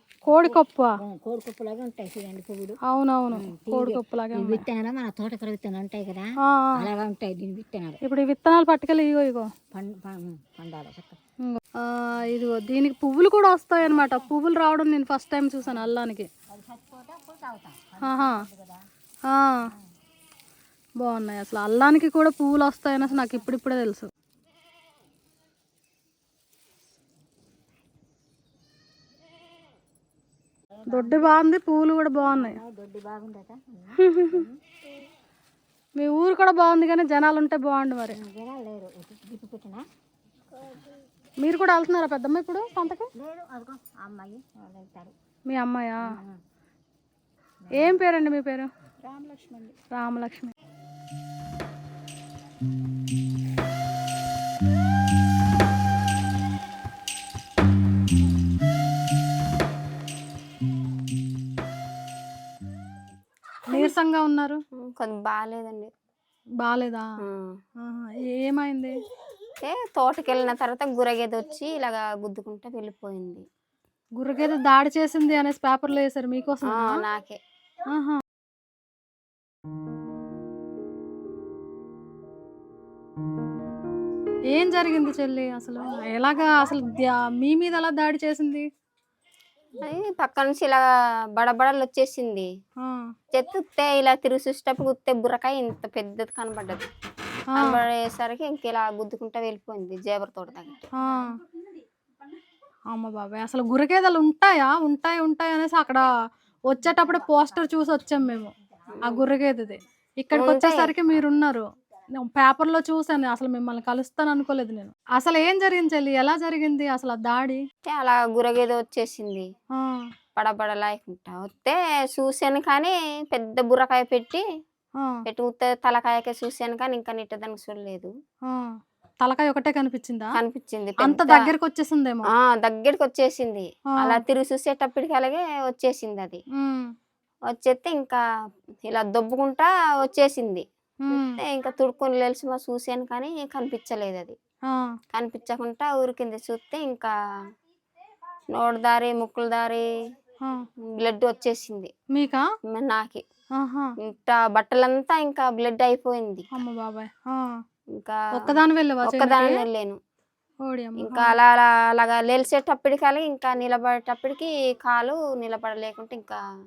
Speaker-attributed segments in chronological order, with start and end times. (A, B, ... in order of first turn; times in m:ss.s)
0:00.3-0:01.0 A
0:00.3-0:02.8 B
0:02.9-0:04.6 A
0:03.3-0:06.3 B
0:06.8-0:08.0 B
0:08.0-0:09.5 A
0:09.7-0:11.2 B
0:11.4-0:16.3 A
0:13.9-0:14.2 B
0:16.5-0:18.8 B
0:18.0-0:18.4 A
0:19.3-0:19.6 A
0:21.0-0:24.1 A
0:23.0-0:23.5 B
0:30.8-0:31.2 B
0:30.9-0:32.6 A
0:32.3-0:34.6 B
0:34.0-0:34.4 A
0:36.0-0:38.2 A
0:38.1-0:39.8 B
0:41.4-0:43.1 A
0:43.2-0:45.1 B
0:45.5-0:46.1 A
0:47.8-0:48.7 A
0:49.0-0:49.8 B
0:49.9-0:50.5 A
1:03.7-1:04.6 A
1:04.8-1:05.9 C
1:06.6-1:07.1 A
1:07.2-1:07.6 C
1:07.8-1:08.9 A
1:09.6-1:13.4 C
1:14.2-1:17.0 A
1:16.7-1:17.4 C
1:17.9-1:18.2 A
1:24.5-1:28.7 A
1:29.8-1:30.8 C
1:31.4-1:32.5 C
1:32.8-1:33.1 A
1:33.3-1:36.8 C
1:37.6-1:37.8 A
1:37.6-1:40.8 C
1:41.0-1:41.3 A
1:42.9-1:46.1 A
1:46.7-1:48.5 A
1:47.2-1:47.5 B
1:49.0-1:51.6 A
1:50.3-1:50.9 C
1:52.2-1:57.6 A
1:57.8-1:59.5 C
1:59.8-2:00.1 A
2:00.4-2:04.4 C
2:05.3-2:08.1 C
2:08.5-2:10.3 A
2:10.4-2:11.5 C
2:11.0-2:12.3 A
2:12.4-2:16.4 C
2:16.6-2:16.9 A
2:17.5-2:18.2 C
2:18.8-2:24.4 C
2:21.1-2:21.4 A
2:24.7-2:25.0 A
2:25.1-2:27.1 C
2:28.5-2:29.9 C
2:30.8-2:31.9 C
2:32.1-2:32.4 A
2:32.7-2:33.2 C
2:33.6-2:33.9 A
2:34.0-2:36.5 C
2:36.5-2:37.6 A
2:38.0-2:38.3 C
2:38.3-2:39.6 A
2:39.0-2:40.0 C
2:40.6-2:41.4 A
2:41.0-2:46.4 C